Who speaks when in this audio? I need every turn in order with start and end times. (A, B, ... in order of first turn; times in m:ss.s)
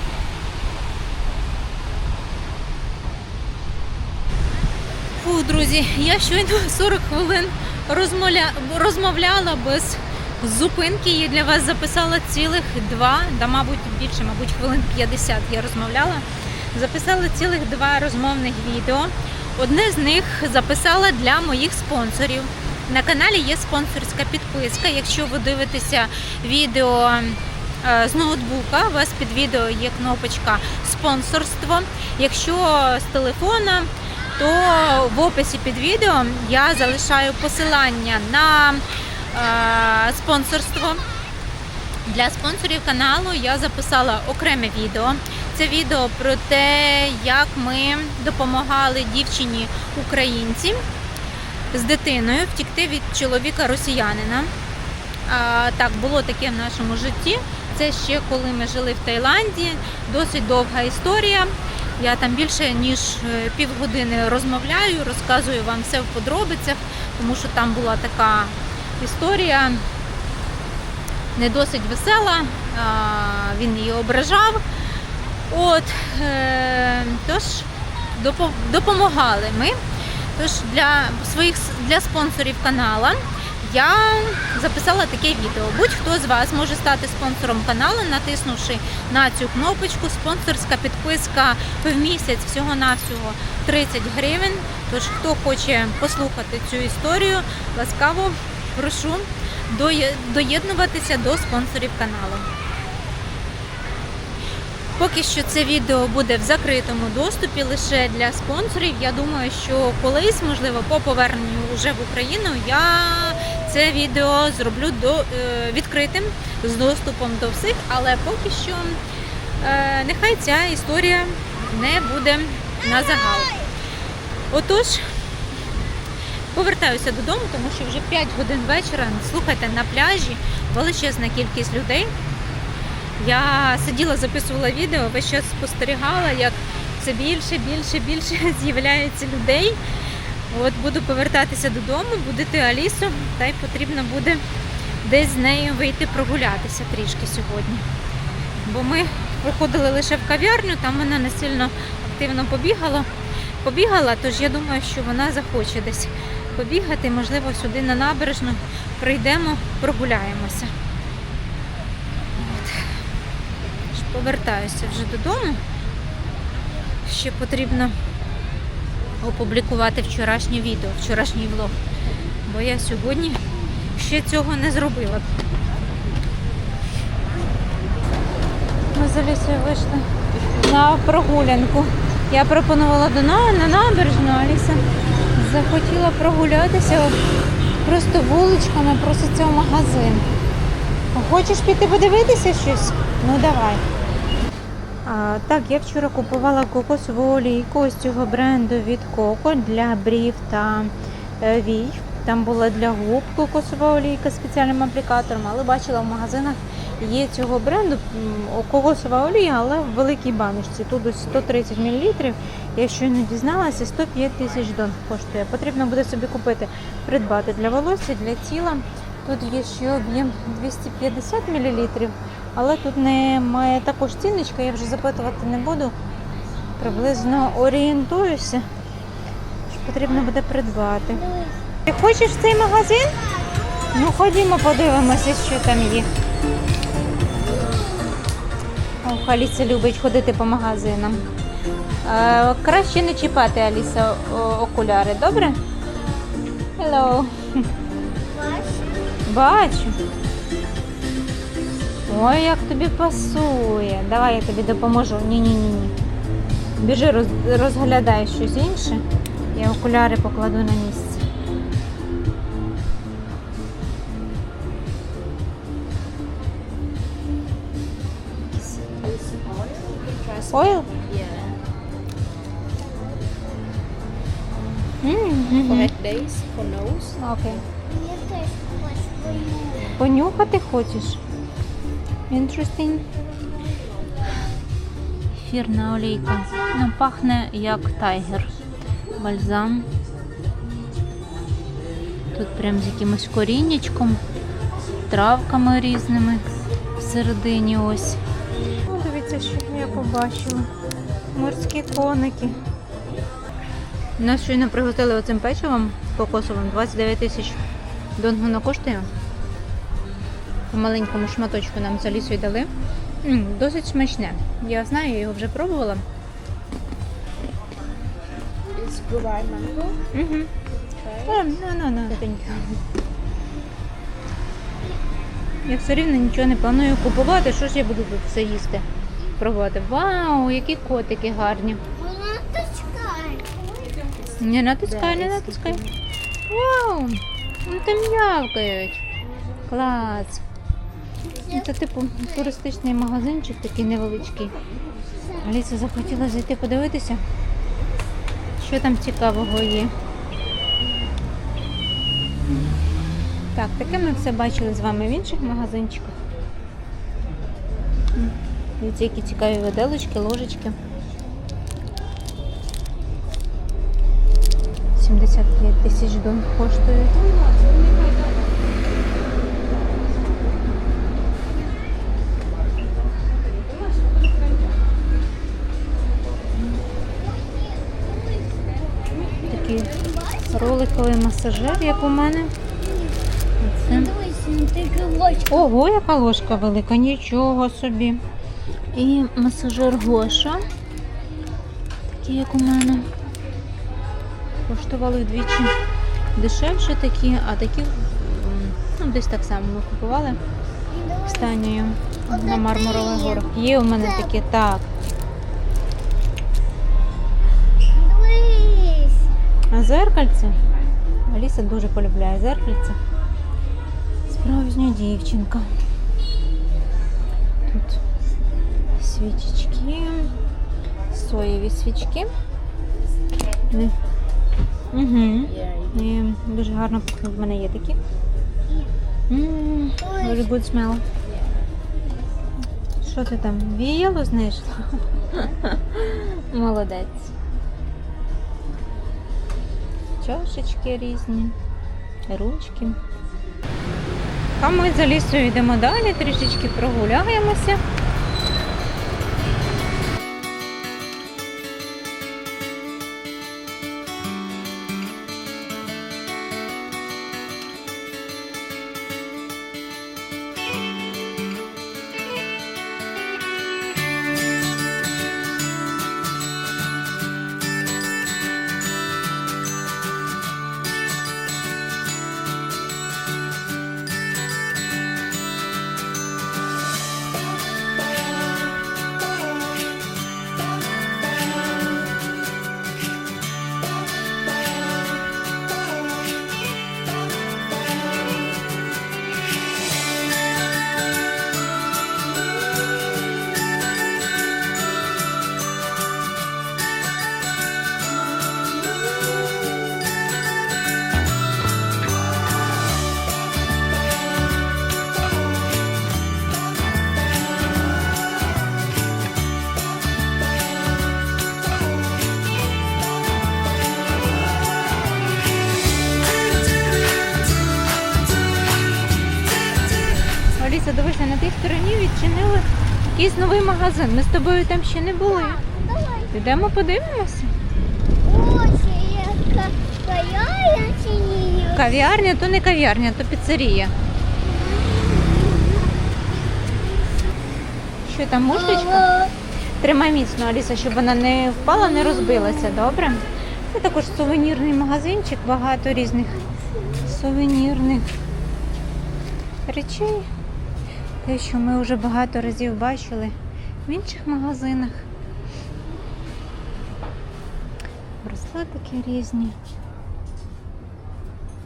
0:05.2-0:41.0 A
0:42.0-0:50.8 A
0:51.7-0:54.5 A
0:55.2-1:09.8 A
1:11.4-1:14.6 A
1:15.5-1:19.8 A
1:20.4-1:42.5 A
1:45.0-1:59.0 A
1:59.6-2:03.6 A
2:04.5-2:05.0 A
2:06.5-2:12.1 A
2:13.2-2:19.8 A
2:20.5-2:24.4 A
2:25.0-2:27.8 A
2:28.6-2:33.1 A
2:33.6-2:40.7 A
2:42.4-2:42.9 A
2:43.9-2:45.6 A
2:47.0-2:48.0 A
2:49.2-2:51.8 A
2:52.4-2:53.4 A
2:53.9-2:55.3 A
2:58.9-3:04.8 A
3:05.3-3:07.2 A
3:07.8-3:10.2 A
3:11.1-3:13.8 A
3:15.0-3:45.9 A
3:46.8-3:48.6 A
3:49.7-3:51.2 A
3:51.1-3:51.6 B
3:51.8-3:53.2 A
3:53.4-3:54.0 B
3:53.9-3:56.1 A
3:57.4-3:58.2 B
3:59.0-4:01.2 A
4:02.0-4:05.6 A
4:06.8-4:07.7 A
4:08.2-4:09.2 B
4:09.2-4:10.0 A
4:12.1-4:15.9 A
4:16.8-4:19.0 A
4:19.5-4:21.2 A
4:28.5-4:28.8 A
4:29.0-4:31.6 C
4:30.5-4:30.9 A
4:35.0-4:35.9 A
4:35.6-4:37.2 C
4:37.2-4:37.6 A
4:37.8-4:39.9 B
4:40.0-4:41.2 A
4:42.3-4:43.0 A
4:45.3-4:48.5 A
4:49.1-4:49.9 A
4:52.3-4:54.2 A
4:55.0-4:58.2 A
4:58.8-5:00.7 A
5:01.3-5:02.6 A
5:04.2-5:07.6 A
5:08.2-5:09.1 A
5:10.7-5:12.7 A
5:13.2-5:16.0 A
5:18.7-5:20.0 C
5:20.1-5:20.5 A
5:20.9-5:21.3 C
5:21.2-5:22.8 A
5:25.6-5:28.9 A
5:29.4-5:31.8 A
5:31.9-5:33.5 B
5:34.4-5:35.8 A
5:34.9-5:35.9 C
5:36.5-5:39.0 A
5:39.7-5:40.4 A
5:41.3-5:41.7 B
5:41.5-5:44.6 A
5:45.4-5:47.2 A
5:48.6-5:49.9 A
5:53.5-5:56.2 A
5:58.1-6:00.8 A
6:05.0-6:07.4 A
6:17.2-6:20.9 B
6:19.4-6:19.9 A
6:20.4-6:22.5 A
6:22.8-6:23.1 B
6:23.6-6:24.1 A
6:23.9-6:25.7 B
6:25.5-6:28.2 A
6:28.9-6:30.6 A
6:32.2-6:33.1 A
6:34.6-6:35.7 A
6:36.3-6:40.4 A
6:40.9-6:41.7 B
6:41.2-6:44.9 A
6:42.2-6:44.3 B
6:47.9-6:49.3 B
6:49.7-6:50.6 A
6:51.2-6:53.0 A
6:54.3-6:55.7 A
6:57.7-6:58.0 A
6:59.0-7:00.3 A
7:01.1-7:02.3 A
7:03.7-7:03.9 A
7:04.9-7:08.0 A
7:05.6-7:05.9 C
7:08.6-7:08.9 B
7:09.3-7:11.0 A
7:10.0-7:10.5 B
7:13.0-7:17.3 A
7:20.2-7:21.6 A
7:22.3-7:23.0 A
7:24.6-7:27.8 A
8:40.6-8:45.6 A
8:45.3-8:46.5 B
8:46.3-8:47.5 A
8:48.2-8:52.1 B
8:51.7-8:53.9 A
8:54.4-8:57.5 B
8:58.0-8:59.1 A
8:58.5-8:59.3 B
8:59.8-9:06.5 A
9:07.0-9:08.1 A
9:09.7-9:10.3 A
9:11.2-9:15.0 A
9:18.2-9:19.6 A